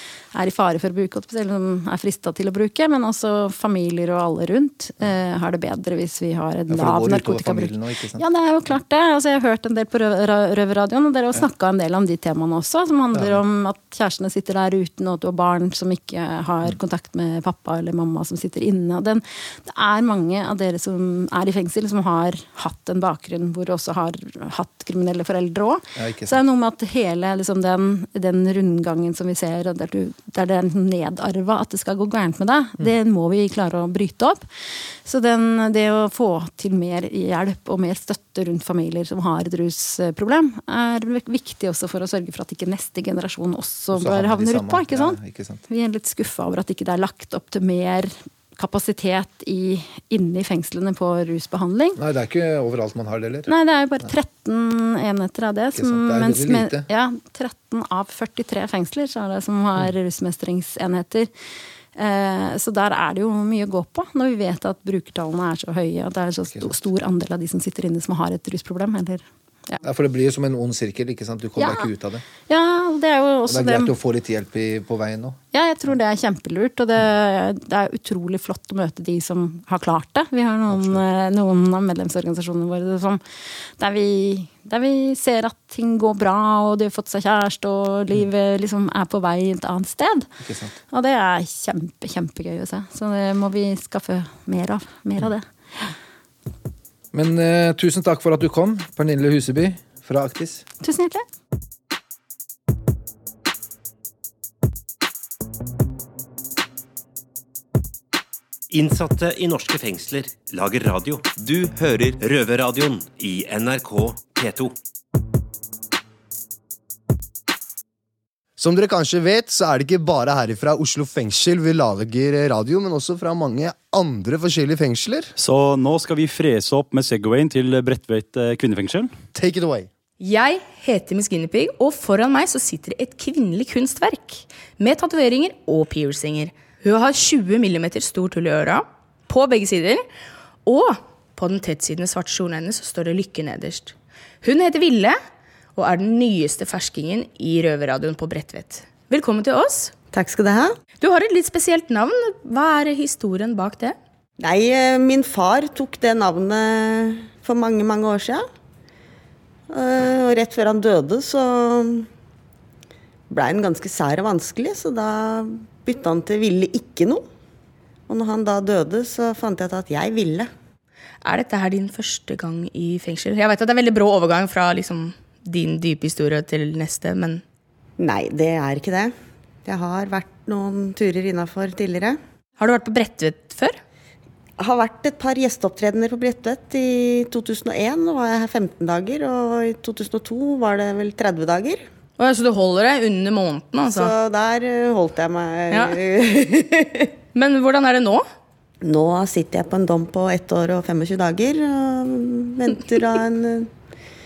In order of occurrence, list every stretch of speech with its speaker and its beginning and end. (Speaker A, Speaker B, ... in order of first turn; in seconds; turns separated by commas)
Speaker A: 0.3-34.4, Speaker B: 6.7-8.2, Speaker B: 13.1-13.4, Speaker B: 26.0-26.4, Speaker A: 35.0-52.0, Speaker B: 43.9-45.6, Speaker B: 52.0-53.5, Speaker A: 53.5-61.3, Speaker B: 55.7-56.9, Speaker A: 62.0-69.8, Speaker B: 69.8-72.2, Speaker A: 71.6-71.9, Speaker A: 72.5-73.9, Speaker B: 73.5-75.4, Speaker A: 75.5-83.2, Speaker B: 80.7-81.0, Speaker A: 83.8-90.3, Speaker B: 90.4-90.7, Speaker A: 90.9-95.9, Speaker B: 97.1-100.6, Speaker A: 100.8-101.2, Speaker C: 108.7-114.7, Speaker D: 118.6-125.3, Speaker E: 125.4-129.1, Speaker D: 129.3-129.9, Speaker F: 130.2-140.0, Speaker F: 140.6-145.2, Speaker F: 145.7-149.9, Speaker G: 150.1-150.7, Speaker F: 151.0-153.9, Speaker G: 154.4-158.4, Speaker G: 159.7-162.1, Speaker G: 163.3-167.2, Speaker G: 168.1-170.5, Speaker F: 171.2-177.4, Speaker G: 178.0-179.1, Speaker G: 179.7-182.2, Speaker F: 182.6-183.8, Speaker G: 184.6-191.8, Speaker F: 192.2-194.2, Speaker G: 193.9-197.0, Speaker F: 195.7-196.0, Speaker F: 197.3-198.2, Speaker G: 198.8-203.7